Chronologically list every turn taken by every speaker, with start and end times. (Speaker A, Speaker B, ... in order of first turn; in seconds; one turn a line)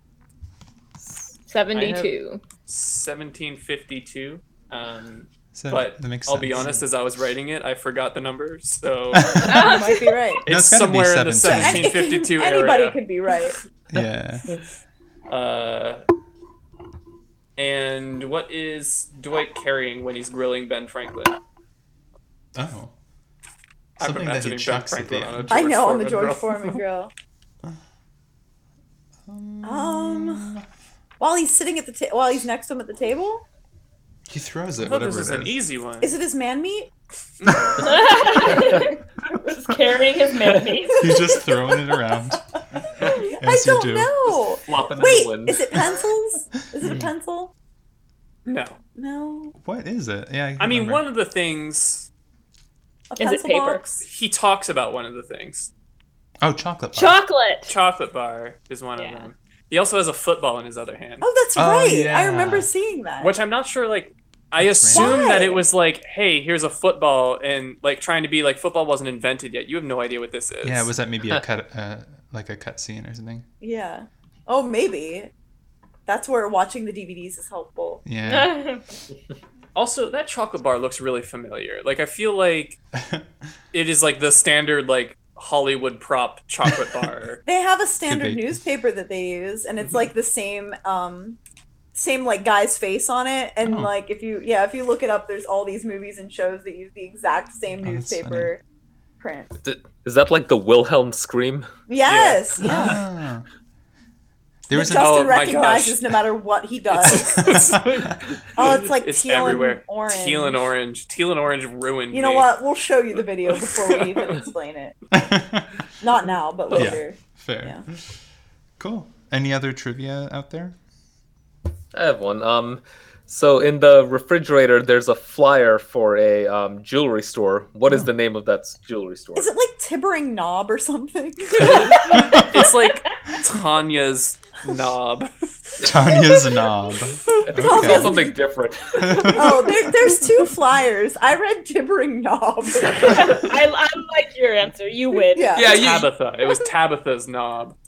Speaker A: 1.5-2.4
Speaker B: 1.7-2.1
Speaker B: 2.7-9.7
Speaker C: 5.5-6.8
Speaker C: 9.1-9.8
Speaker A: 9.4-10.2
Speaker D: 9.4-10.4
Speaker B: 10.4-13.0
Speaker C: 10.5-11.9
Speaker D: 11.4-13.6
Speaker C: 13.9-14.5
Speaker B: 15.3-16.0
Speaker B: 17.6-21.4
Speaker C: 22.6-22.9
Speaker B: 24.0-26.8
Speaker C: 24.0-25.6
Speaker D: 25.5-27.1
Speaker C: 29.3-30.6
Speaker D: 29.6-30.5
Speaker D: 31.2-33.5
Speaker C: 34.3-35.6
Speaker B: 34.8-36.1
Speaker D: 36.0-36.9
Speaker B: 37.4-38.1
Speaker A: 37.8-41.4
Speaker C: 41.0-44.1
Speaker D: 43.1-47.5
Speaker E: 44.7-45.6
Speaker B: 48.5-48.8
Speaker D: 49.0-49.5
Speaker C: 49.6-51.0
Speaker B: 50.6-52.1
Speaker D: 53.1-54.0
Speaker A: 53.2-53.9
Speaker B: 54.0-55.7
Speaker C: 56.4-57.2
Speaker A: 56.9-57.8
Speaker B: 57.7-61.3
Speaker A: 59.0-59.3
Speaker D: 61.2-63.4
Speaker C: 61.6-62.7
Speaker B: 63.2-70.9
Speaker C: 64.6-65.2
Speaker D: 64.9-65.7
Speaker C: 70.6-73.5
Speaker D: 73.6-75.3
Speaker D: 76.1-78.0
Speaker C: 78.0-78.6
Speaker A: 78.2-78.8
Speaker B: 79.8-82.8
Speaker B: 83.7-87.4
Speaker D: 87.5-91.4
Speaker C: 88.1-88.6
Speaker D: 92.0-98.6
Speaker C: 93.6-93.9
Speaker C: 97.8-98.5
Speaker D: 99.2-99.5
Speaker E: 99.6-101.7
Speaker D: 101.9-103.0
Speaker B: 102.0-102.9
Speaker C: 102.6-103.5
Speaker C: 104.7-105.3
Speaker D: 104.7-107.6
Speaker B: 104.8-106.0
Speaker B: 107.0-112.5
Speaker C: 107.3-108.3
Speaker D: 108.5-110.6
Speaker D: 112.1-115.0
Speaker B: 113.6-114.3
Speaker C: 115.1-115.7
Speaker D: 116.0-117.8
Speaker B: 116.7-117.0
Speaker C: 116.7-118.0
Speaker C: 118.8-120.8
Speaker E: 121.9-129.5
Speaker D: 129.3-132.4
Speaker E: 131.6-131.9
Speaker B: 131.6-135.7
Speaker C: 132.1-132.5
Speaker C: 135.8-138.3
Speaker E: 137.4-139.4
Speaker D: 137.5-138.3
Speaker C: 138.9-140.1
Speaker D: 139.3-143.5
Speaker A: 143.0-145.6
Speaker D: 145.3-145.8
Speaker E: 145.6-146.1
Speaker B: 145.6-147.8